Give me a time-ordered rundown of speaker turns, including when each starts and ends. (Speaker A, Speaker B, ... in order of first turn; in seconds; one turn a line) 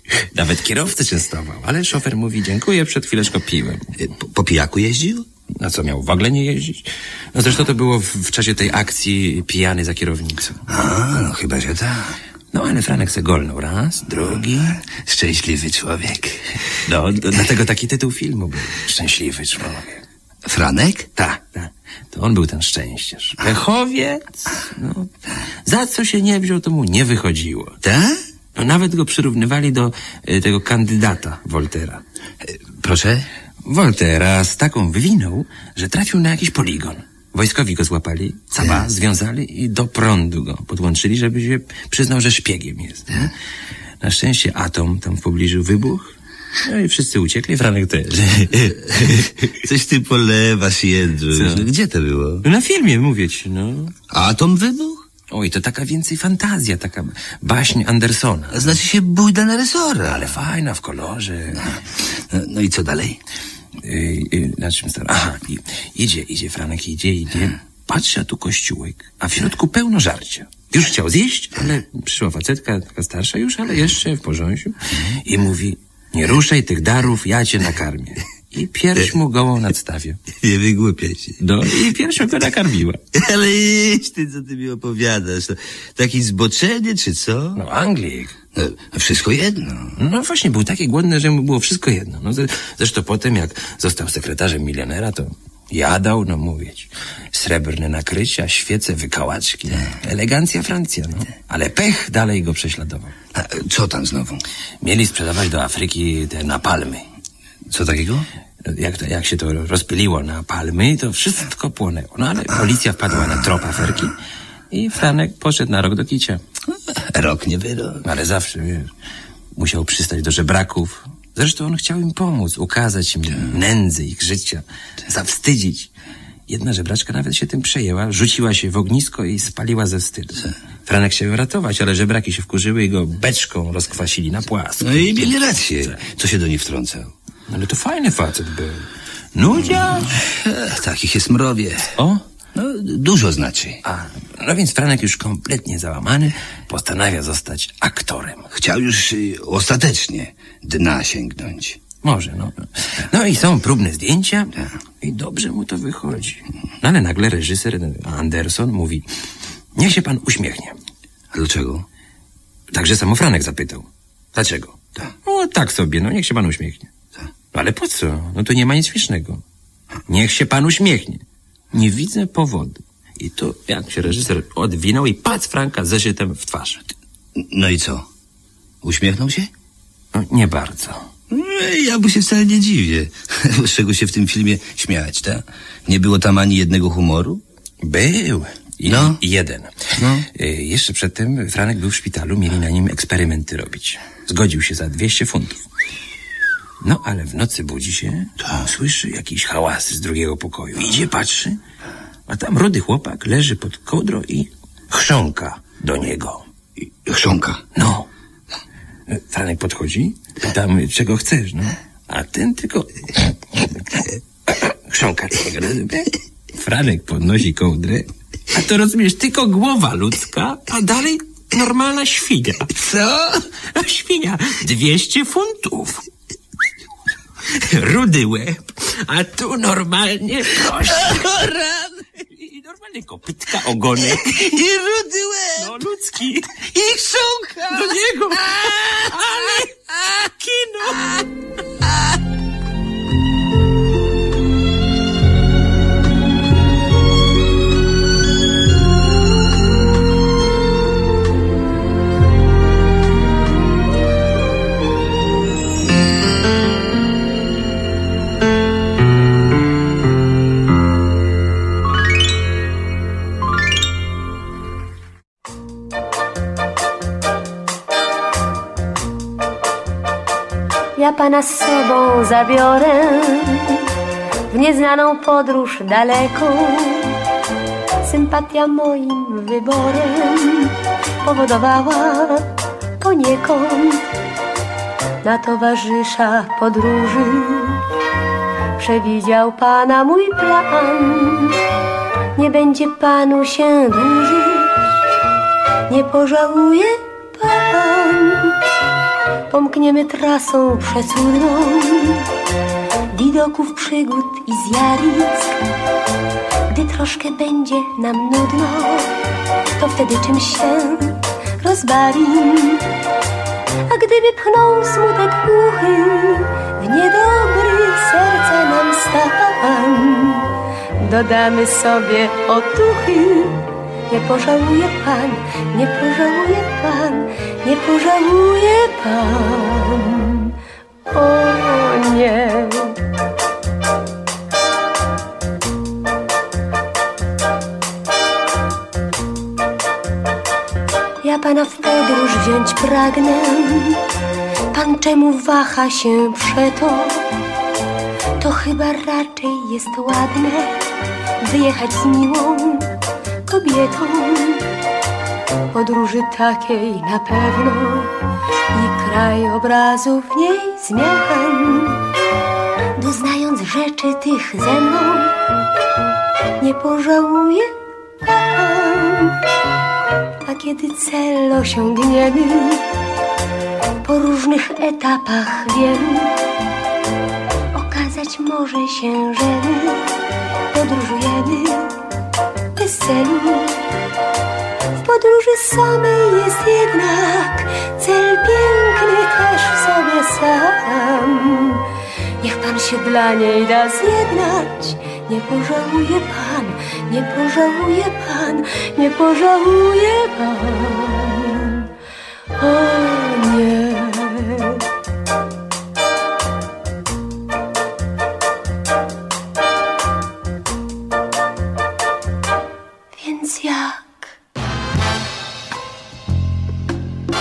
Speaker A: 0.3-3.9
Speaker B: 4.0-5.2
Speaker A: 5.6-10.7
Speaker B: 10.7-12.1
Speaker A: 12.5-14.8
Speaker B: 14.3-16.6
Speaker A: 16.9-20.0
Speaker B: 20.4-21.1
Speaker A: 21.1-25.1
Speaker A: 25.6-27.8
Speaker B: 27.8-28.1
Speaker A: 28.5-32.0
Speaker B: 32.5-33.3
Speaker A: 33.6-43.3
Speaker A: 44.0-49.3
Speaker B: 48.5-52.4
Speaker A: 51.3-51.7
Speaker A: 52.4-53.9
Speaker B: 54.1-55.1
Speaker A: 55.3-58.8
Speaker B: 58.5-60.4
Speaker A: 60.1-61.8
Speaker B: 62.3-63.2
Speaker A: 63.8-80.2
Speaker B: 80.4-81.9
Speaker A: 81.4-83.0
Speaker B: 83.1-87.6
Speaker A: 87.5-88.3
Speaker B: 88.5-89.9
Speaker A: 90.0-103.1
Speaker B: 103.3-104.4
Speaker A: 104.8-107.0
Speaker B: 107.7-108.2
Speaker A: 108.6-114.1
Speaker A: 114.7-116.4
Speaker B: 117.0-118.0
Speaker A: 118.0-118.9
Speaker A: 119.5-125.9
Speaker A: 126.5-136.0
Speaker B: 134.8-137.1
Speaker A: 137.5-140.2
Speaker B: 140.3-141.9
Speaker A: 142.0-142.2
Speaker B: 142.5-143.8
Speaker A: 143.8-148.5
Speaker B: 148.5-151.8
Speaker A: 152.0-159.0
Speaker A: 159.8-160.8
Speaker B: 161.3-161.8
Speaker A: 162.7-166.9
Speaker A: 167.5-169.4
Speaker A: 170.1-171.2
Speaker A: 171.7-176.8
Speaker B: 177.4-178.1
Speaker B: 178.8-179.5
Speaker A: 180.1-181.1
Speaker B: 181.3-187.4
Speaker A: 187.8-195.6
Speaker B: 188.8-189.2
Speaker A: 196.8-201.6
Speaker A: 202.3-206.4
Speaker B: 207.1-207.6
Speaker A: 207.7-208.1
Speaker A: 209.1-213.7
Speaker A: 214.5-222.7
Speaker B: 222.7-223.4
Speaker A: 223.7-226.1
Speaker A: 227.5-231.4
Speaker B: 231.0-231.9
Speaker A: 232.2-234.5
Speaker B: 234.0-235.7
Speaker A: 235.6-236.7
Speaker B: 236.6-239.6
Speaker A: 237.7-241.2
Speaker C: 270.9-273.8
Speaker C: 274.5-277.1
Speaker C: 278.0-282.5
Speaker C: 283.0-284.1
Speaker C: 285.2-287.8
Speaker C: 288.8-291.6
Speaker C: 292.4-294.8
Speaker C: 295.9-298.5
Speaker C: 299.5-302.3
Speaker C: 303.1-305.6
Speaker C: 306.7-309.1
Speaker C: 309.8-312.8
Speaker C: 313.9-320.5
Speaker C: 321.0-330.5
Speaker C: 331.1-333.0
Speaker C: 341.2-344.0
Speaker C: 344.7-347.2
Speaker C: 348.4-350.8
Speaker C: 351.4-352.9
Speaker C: 353.5-354.6
Speaker C: 355.7-358.1
Speaker C: 358.7-362.0
Speaker C: 363.0-365.3
Speaker C: 366.6-367.7
Speaker C: 368.2-369.4
Speaker C: 370.4-372.8
Speaker C: 374.0-376.3
Speaker C: 377.7-380.1
Speaker C: 380.7-381.9
Speaker C: 382.8-383.8
Speaker C: 385.0-391.8
Speaker C: 392.4-401.9
Speaker C: 402.6-404.8
Speaker C: 413.1-414.3